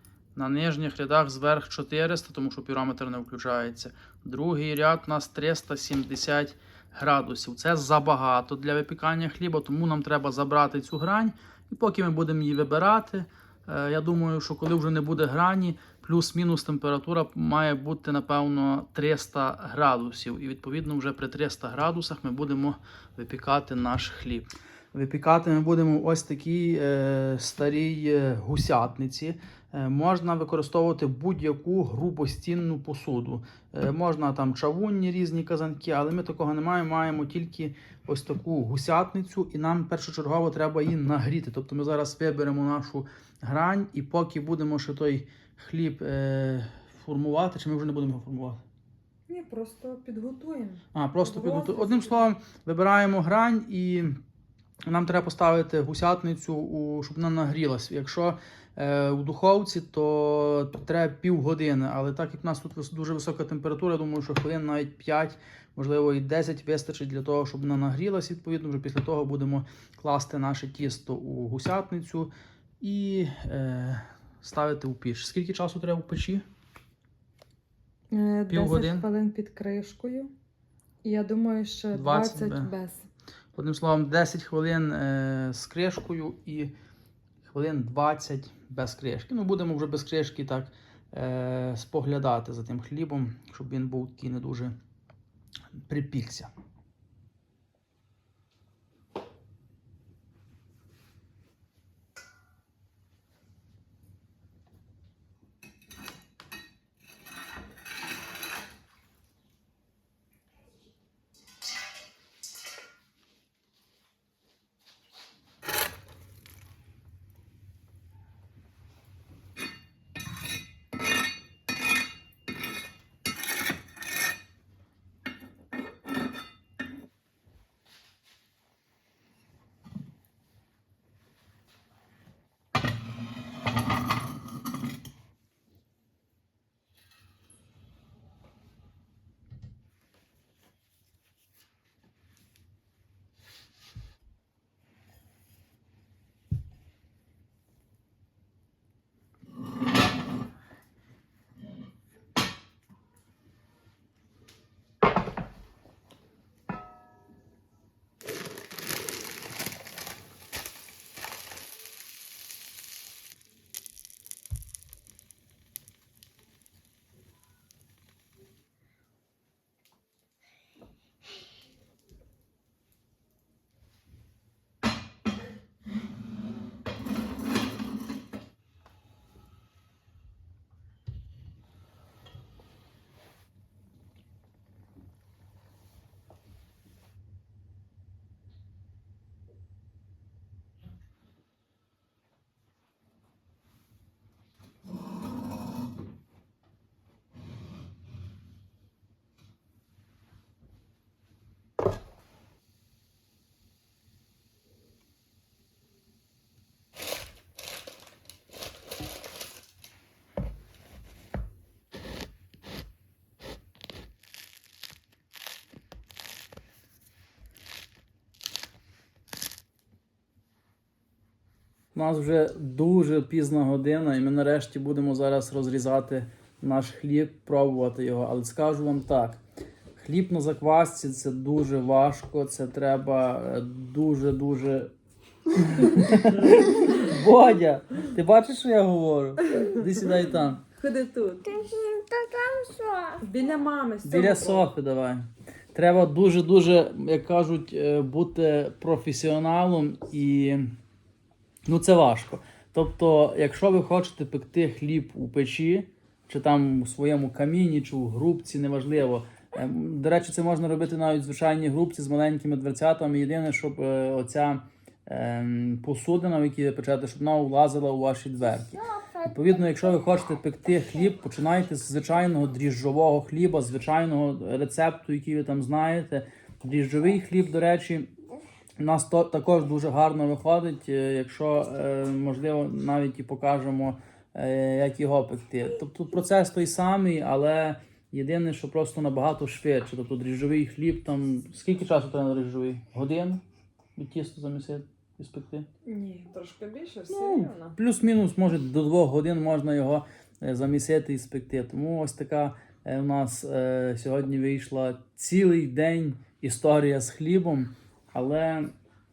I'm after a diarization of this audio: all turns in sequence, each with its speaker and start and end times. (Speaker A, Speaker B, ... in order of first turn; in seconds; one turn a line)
Speaker A: 0.3-48.6
Speaker B: 49.3-52.3
Speaker A: 50.9-54.2
Speaker A: 54.8-76.4
Speaker B: 78.1-80.3
Speaker A: 78.5-79.0
Speaker B: 81.0-83.1
Speaker A: 81.9-82.7
Speaker A: 83.5-86.7
Speaker A: 87.4-94.8
Speaker A: 95.7-96.5
Speaker A: 221.9-229.4
Speaker A: 229.9-234.9
Speaker A: 235.5-240.6
Speaker B: 240.8-241.4
Speaker C: 240.8-243.2
Speaker B: 243.2-244.7
Speaker A: 244.0-250.7
Speaker A: 251.7-278.1
Speaker C: 268.7-269.8
Speaker A: 278.8-293.4
Speaker A: 293.9-295.7
Speaker B: 295.8-297.8
Speaker A: 297.1-308.7